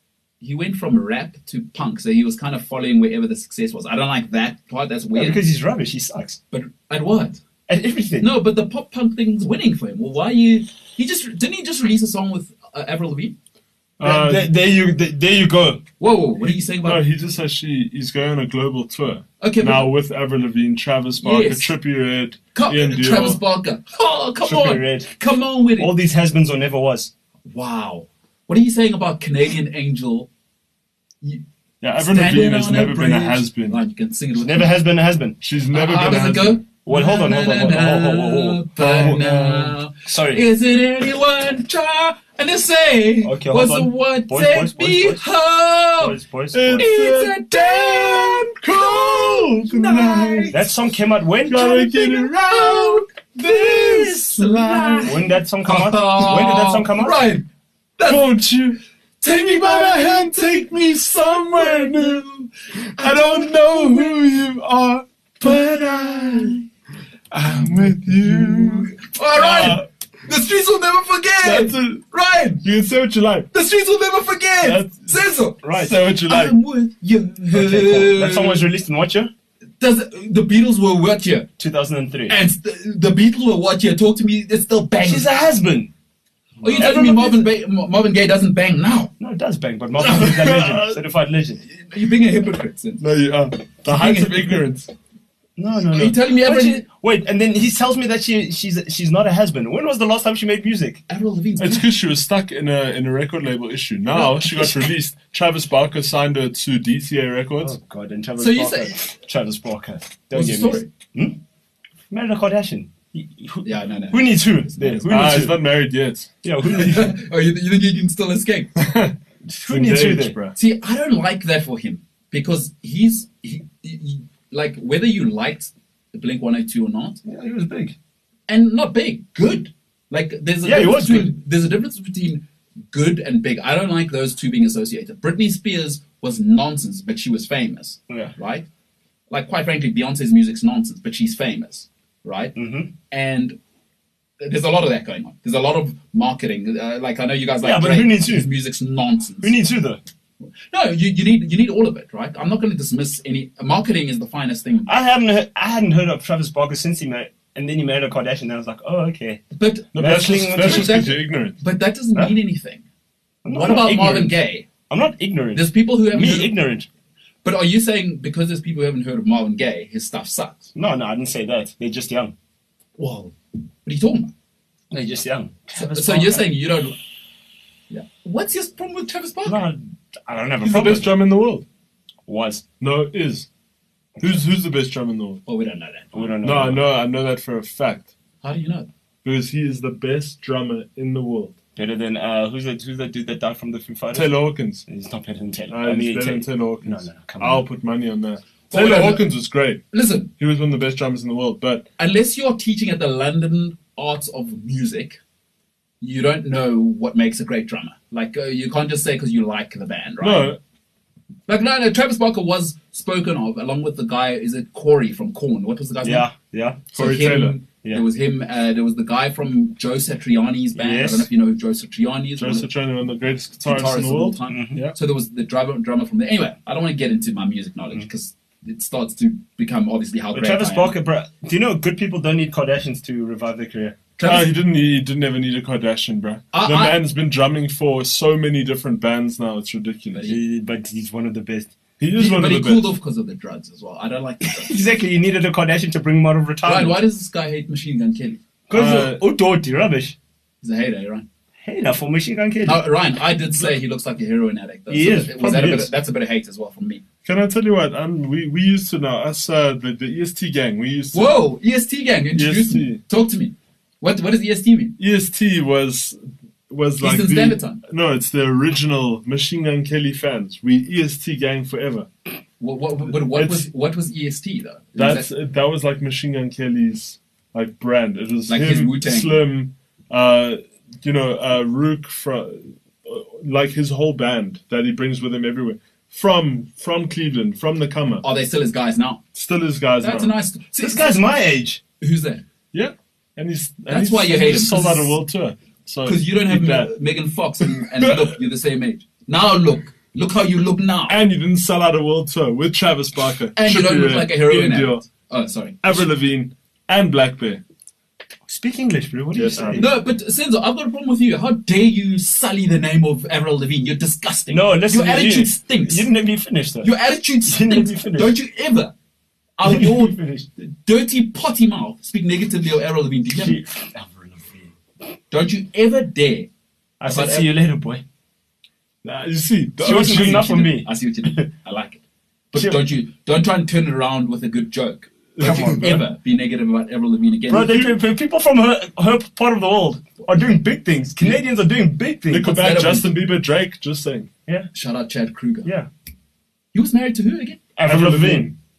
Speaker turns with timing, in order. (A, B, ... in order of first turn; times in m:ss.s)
0:00.4-0:05.4 A
0:05.2-0:06.4 B
0:06.5-0:07.4 A
0:07.7-0:08.3 B
0:08.2-0:13.4 A
0:14.0-0:14.5 C
0:14.0-0:15.8 B
0:16.0-0:17.0 A
0:16.8-0:23.4 C
0:19.4-0:19.9 A
0:21.2-0:21.7 A
0:22.6-0:25.9 A
0:24.4-0:25.1 B
0:25.8-0:27.1 B
0:27.5-0:30.3 A
0:31.8-0:33.8 C
0:32.0-0:34.7 A
0:34.4-0:35.4 B
0:35.4-0:36.7 C
0:35.7-0:46.2 A
0:36.8-0:40.4 B
0:38.8-0:39.2 C
0:43.2-0:45.2 B
0:46.0-0:46.9 B
0:46.5-0:50.7 C
0:46.8-0:50.6 A
0:50.5-0:51.9 B
0:51.5-0:55.2 C
0:51.9-0:57.4 A
0:55.0-0:57.2 B
0:58.0-0:58.2 A
0:58.1-1:02.3 C
0:59.2-1:04.2 A
1:03.0-1:06.6 C
1:05.4-1:06.6 A
1:07.3-1:09.8 C
1:09.0-1:12.6 A
1:11.4-1:12.0 C
1:12.6-1:13.5 C
1:13.5-1:18.7 A
1:14.6-1:16.6 C
1:15.6-1:16.0 B
1:17.5-1:19.3 B
1:19.8-1:21.5 A
1:21.6-1:22.4 B
1:22.3-1:25.3 A
1:25.0-1:25.9 B
1:26.6-1:27.5 B
1:26.6-1:29.1 A
1:29.2-1:31.6 B
1:30.0-1:31.0 C
1:31.6-1:33.0 A
1:33.0-1:34.9 C
1:33.8-1:34.6 A
1:35.6-1:41.0 B
1:35.9-1:36.8 A
1:41.1-1:41.9 A
1:41.6-1:47.8 C
1:44.1-1:44.9 B
1:47.6-1:51.4 B
1:48.4-1:49.1 A
1:50.3-1:50.9 A
1:52.1-1:55.6 B
1:53.6-1:55.5 A
1:55.1-1:56.3 C
1:56.4-1:57.1 B
1:56.7-1:58.7 A
1:58.8-1:59.2 C
1:59.4-2:00.4 B
1:59.7-2:00.6 C
2:00.6-2:07.2 A
2:07.2-2:08.0 B
2:08.5-2:18.7 A
2:10.6-2:11.3 B
2:18.1-2:18.3 B
2:19.3-2:22.6 A
2:22.6-2:22.9 B
2:23.1-2:23.6 A
2:24.4-2:29.6 A
2:27.6-2:28.5 B
2:29.4-2:30.0 B
2:30.4-2:34.9 A
2:34.9-2:39.4 B
2:39.5-2:39.9 A
2:39.9-2:41.1 B
2:40.0-2:41.6 C
2:40.5-2:42.8 A
2:43.4-2:46.9 B
2:43.5-2:44.7 A
2:45.5-2:46.5 A
2:47.4-2:50.7 A
2:50.8-2:52.3 B
2:53.0-2:54.3 A
2:54.9-2:56.5 B
2:55.7-2:57.0 A
2:57.9-2:59.7 A
2:59.5-3:01.2 B
3:00.6-3:01.6 C
3:02.3-3:02.6 B
3:02.8-3:03.5 C
3:04.2-3:05.4 C
3:05.5-3:06.4 A
3:06.1-3:06.8 B
3:06.4-3:08.1 C
3:08.4-3:08.9 A
3:09.2-3:11.5 C
3:11.8-3:14.3 B
3:14.1-3:14.8 C
3:14.8-3:17.6 B
3:15.7-3:19.9 C
3:18.7-3:19.3 A
3:19.9-3:20.3 A
3:20.4-3:21.9 C
3:22.0-3:25.2 A
3:26.0-3:30.6 A
3:30.2-3:30.6 C
3:31.5-3:36.3 A
3:36.0-3:36.9 B
3:36.9-3:37.6 C
3:36.9-3:42.7 A
3:40.8-3:41.3 B
3:42.4-3:45.0 C
3:43.6-3:51.0 A
3:44.5-3:44.8 B
3:50.3-3:54.0 B
3:54.2-3:54.5 A
3:54.2-4:00.2 C
3:56.5-3:57.0 A
4:00.1-4:00.4 A
4:00.3-4:01.7 B
4:02.0-4:02.9 C
4:02.2-4:04.8 A
4:04.4-4:07.0 B
4:06.6-4:08.4 A
4:08.7-4:10.2 B
4:08.7-4:09.2 C
4:10.6-4:11.2 A
4:11.6-4:12.8 B
4:12.6-4:17.0 A
4:14.9-4:15.9 B
4:17.2-4:21.4 C
4:21.1-4:25.0 A
4:22.4-4:23.0 C
4:25.0-4:32.1 C
4:27.0-4:27.8 A
4:32.6-4:35.3 A
4:33.2-4:33.7 C
4:35.0-4:48.2 C
4:38.5-4:39.4 A
4:48.2-4:49.2 A
4:49.3-4:50.4 C
4:50.0-4:51.2 A
4:50.8-4:51.8 B
4:52.0-4:52.4 A
4:52.7-4:56.9 C
4:53.9-4:55.2 A
4:56.0-5:01.2 A
4:57.6-4:58.3 C
5:01.1-5:05.1 C
5:03.6-5:06.1 A
5:05.8-5:07.6 C
5:08.5-5:09.9 B
5:09.4-5:09.9 C
5:09.8-5:16.1 A
5:14.5-5:16.9 B
5:16.8-5:18.9 A
5:17.4-5:18.4 B
5:19.6-5:23.6 A
5:19.6-5:20.5 B
5:23.4-5:24.7 B
5:25.3-5:26.5 A
5:27.0-5:28.0 B
5:27.1-5:27.5 A
5:29.0-5:30.6 C
5:29.8-5:31.5 B
5:29.9-5:32.0 A
5:32.5-5:37.8 A
5:32.5-5:32.8 B
5:35.4-5:36.0 C
5:35.4-5:36.0 B
5:37.5-5:42.6 B
5:37.6-5:37.9 C
5:42.3-5:44.3 C
5:42.4-5:43.1 A
5:44.7-5:45.7 A
5:46.7-5:47.6 A
5:47.8-5:48.5 B
5:47.8-5:48.5 C